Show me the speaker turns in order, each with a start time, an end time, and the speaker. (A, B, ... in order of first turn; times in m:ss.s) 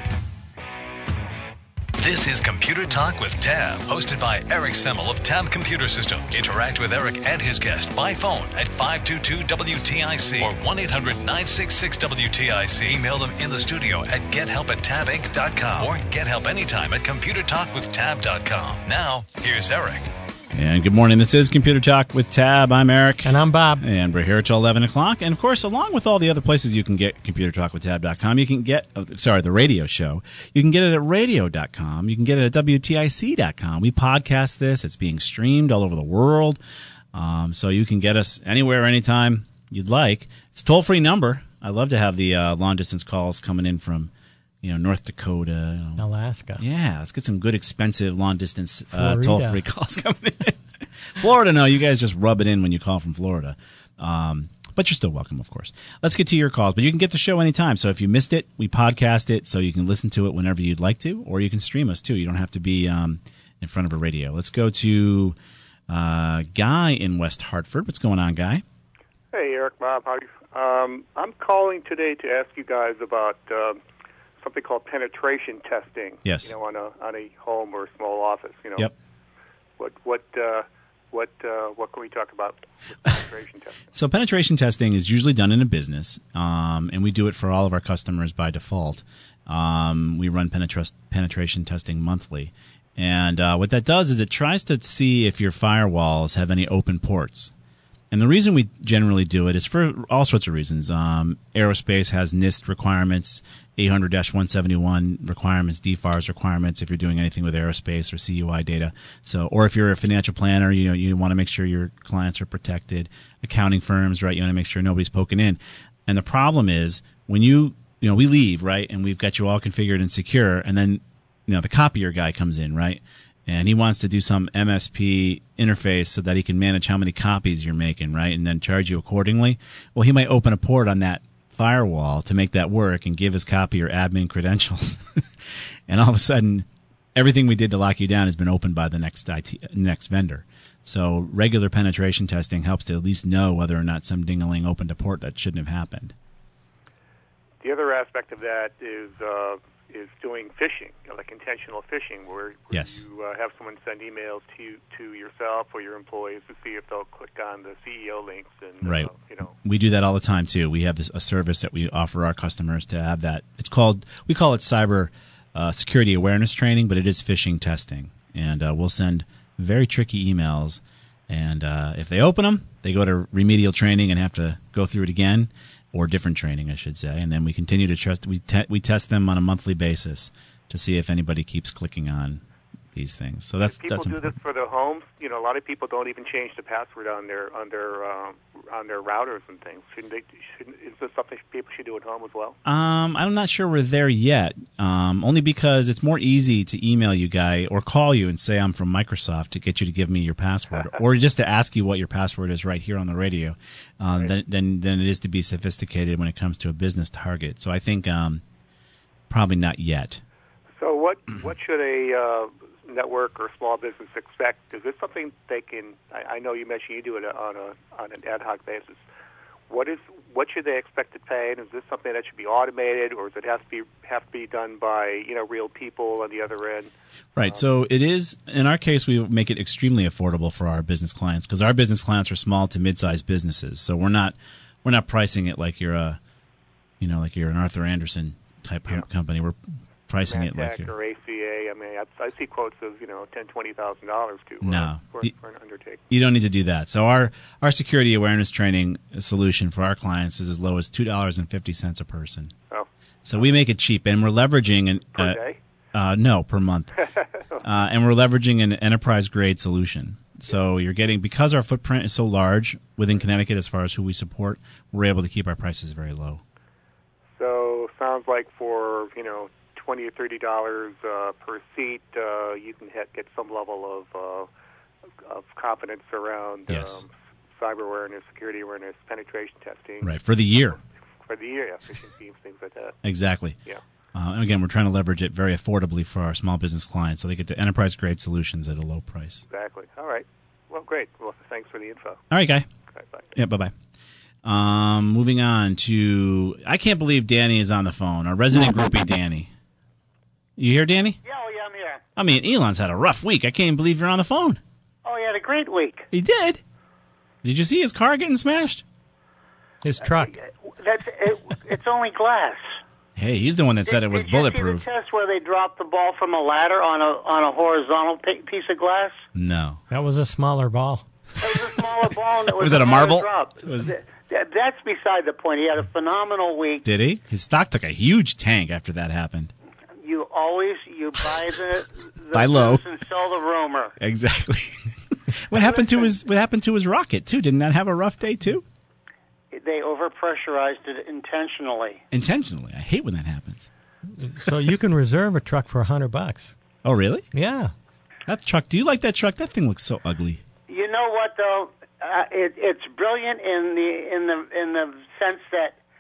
0:02.0-0:20.1 A
0:20.5-0:36.6 B
0:23.2-0:23.8 C
0:37.1-0:44.1 B
0:44.6-0:46.0 B
0:46.0-0:46.6 C
0:46.6-0:50.6 B
0:48.9-0:49.6 C
0:51.2-1:05.4 B
1:05.9-1:08.6 B
1:09.3-1:13.8 D
1:14.4-1:18.9 D
1:16.3-1:16.5 B
1:19.8-1:23.9 D
1:24.0-1:37.5 B
1:38.1-2:15.2 B
2:15.9-2:26.2 B
2:27.6-2:39.6 D
2:32.7-2:33.0 B
2:38.8-2:39.1 B
2:39.6-3:02.4 B
3:02.9-3:04.3 B
3:03.6-3:12.6 D
3:12.6-3:28.4 B
3:29.3-3:30.2 B
3:30.8-3:39.0 D
3:39.7-3:46.9 D
3:47.4-3:56.2 B
3:57.0-3:59.6 B
4:00.1-4:00.9 B
4:00.2-4:06.0 D
4:04.6-4:05.3 B
4:06.1-4:12.5 B
4:13.2-4:15.4 B
4:15.2-4:15.6 D
4:15.9-4:17.0 B
4:17.2-4:17.6 D
4:17.6-4:26.4 B
4:27.4-4:34.5 D
4:35.2-4:40.2 D
4:36.7-4:37.0 B
4:40.0-4:40.8 B
4:41.2-4:43.0 D
4:43.0-4:43.6 B
4:44.1-4:49.4 B
4:49.5-4:52.2 D
4:52.3-4:52.7 B
4:52.9-4:53.3 D
4:53.4-4:53.7 B
4:54.4-4:59.5 B
5:00.6-5:01.2 B
5:01.2-5:02.0 E
5:02.2-5:04.6 B
5:05.0-5:06.0 E
5:06.1-5:06.6 B
5:07.4-5:08.8 B
5:09.8-5:10.3 C
5:10.2-5:12.8 E
5:13.2-5:14.9 B
5:13.9-5:19.2 E
5:19.4-5:19.8 B
5:19.9-5:21.0 C
5:21.4-5:26.8 E
5:22.5-5:23.9 B
5:26.8-5:29.5 B
5:30.0-5:34.0 E
5:32.3-5:32.8 B
5:34.0-5:38.6 B
5:35.5-5:36.2 E
5:39.5-5:42.0 E
5:42.1-5:43.7 B
5:44.2-5:46.5 C
5:46.8-5:47.3 B
5:47.3-5:47.7 C
5:48.3-5:50.4 B
5:50.7-5:55.8 E